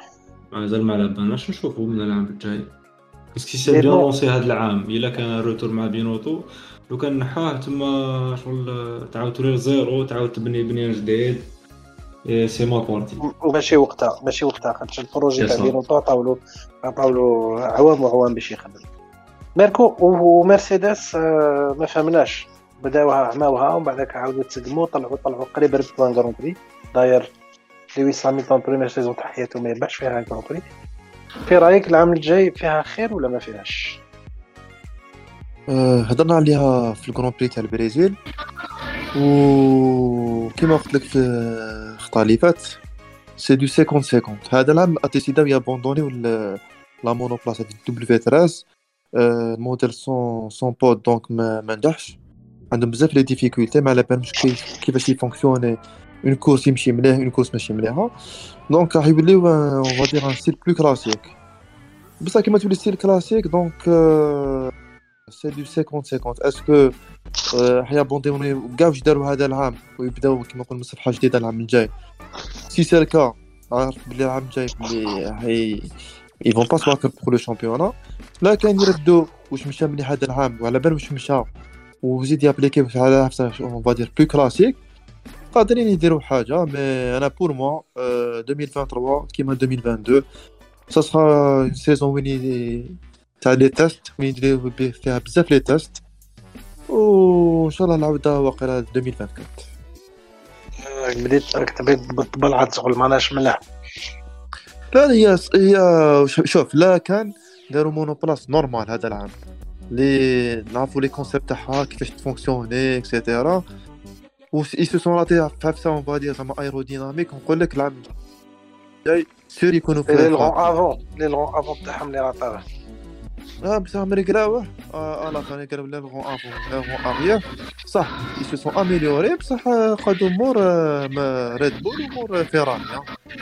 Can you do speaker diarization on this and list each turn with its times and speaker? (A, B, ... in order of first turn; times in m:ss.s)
0:00.5-0:02.7 A
0:03.3-0:11.5 A
0:03.7-0:04.1 B
0:12.2-0:13.2 A
0:13.2-0:18.8 B
0:15.4-0:15.7 A
0:19.6-0:27.3 B
0:28.0-0:30.7 B
0:31.4-0:34.0 B
0:35.7-0:38.2 C
0:39.1-0:42.8 C
0:43.4-0:52.2 C
0:52.7-0:58.1 C
0:58.7-1:01.3 C
1:02.2-1:04.7 C
1:05.3-1:06.9 C
1:07.5-1:11.9 C
1:12.7-1:15.9 C
1:16.4-1:21.5 C
1:22.0-1:24.8 C
1:25.5-1:30.2 C
1:30.9-1:36.0 C
1:36.9-1:39.7 C
1:40.8-1:43.6 B
1:44.9-1:49.3 C
1:49.9-1:53.6 C
1:54.5-1:58.1 C
1:59.0-2:00.7 C
2:00.1-2:02.6 B
2:03.6-2:13.1 C